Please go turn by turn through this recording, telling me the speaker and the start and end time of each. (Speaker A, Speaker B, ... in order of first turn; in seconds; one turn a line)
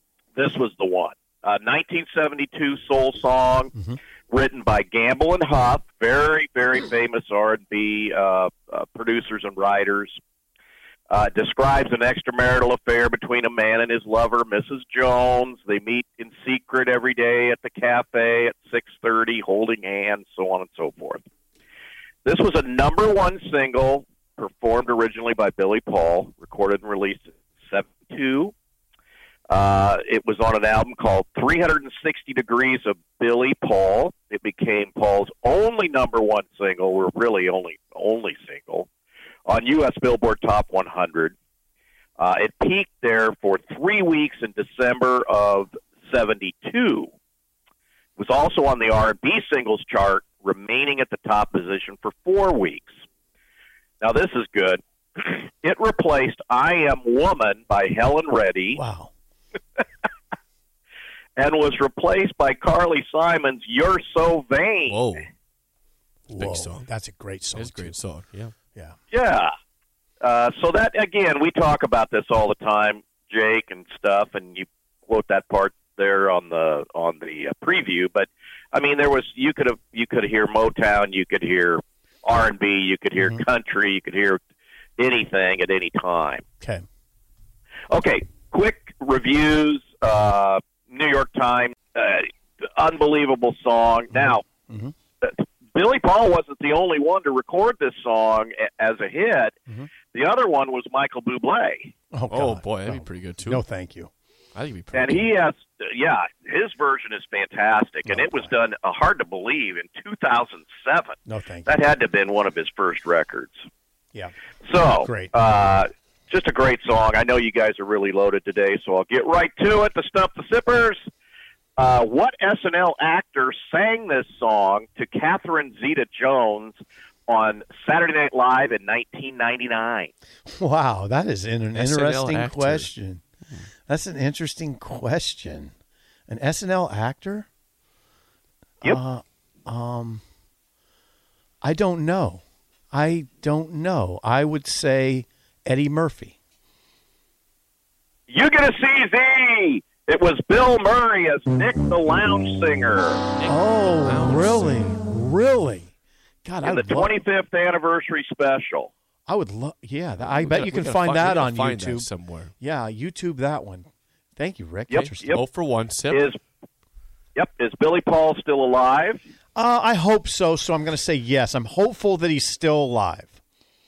Speaker A: 0.3-3.7
Speaker A: 4.3-10.2
Speaker A: 11.1-21.2
Speaker A: 22.2-28.5
Speaker A: 29.5-38.9
Speaker A: 39.5-41.3
Speaker A: 42.2-47.1
Speaker A: 48.2-52.9
Speaker A: 54.0-58.8
Speaker B: 58.8-59.1
Speaker A: 61.4-65.0
Speaker C: 64.9-65.2
Speaker B: 66.3-68.0
Speaker C: 66.3-66.8
Speaker C: 67.5-68.5
Speaker A: 69.1-69.5
Speaker A: 70.2-84.4
Speaker A: 85.0-86.4
Speaker A: 87.9-94.5
Speaker B: 94.1-94.9
Speaker A: 95.2-101.9
Speaker B: 102.1-104.1
Speaker C: 102.3-103.6
Speaker C: 104.5-105.3
Speaker A: 104.9-111.2
Speaker B: 108.0-108.5
Speaker B: 111.3-111.8
Speaker A: 111.7-113.6
Speaker A: 114.7-121.0
Speaker B: 114.9-115.3
Speaker A: 121.8-130.1
Speaker B: 130.5-133.2
Speaker C: 131.7-132.9
Speaker B: 133.9-135.7
Speaker B: 136.3-137.5
Speaker B: 138.8-140.2
Speaker B: 141.6-146.3
Speaker A: 148.3-153.2
Speaker C: 153.3-154.9
Speaker B: 153.5-155.9
Speaker B: 156.4-157.1
Speaker A: 156.6-158.9
Speaker B: 159.3-162.1
Speaker C: 160.4-162.5
Speaker B: 162.6-165.4
Speaker A: 164.9-165.4
Speaker C: 165.0-166.2
Speaker A: 166.1-166.4
Speaker A: 167.3-169.2
Speaker B: 169.6-173.4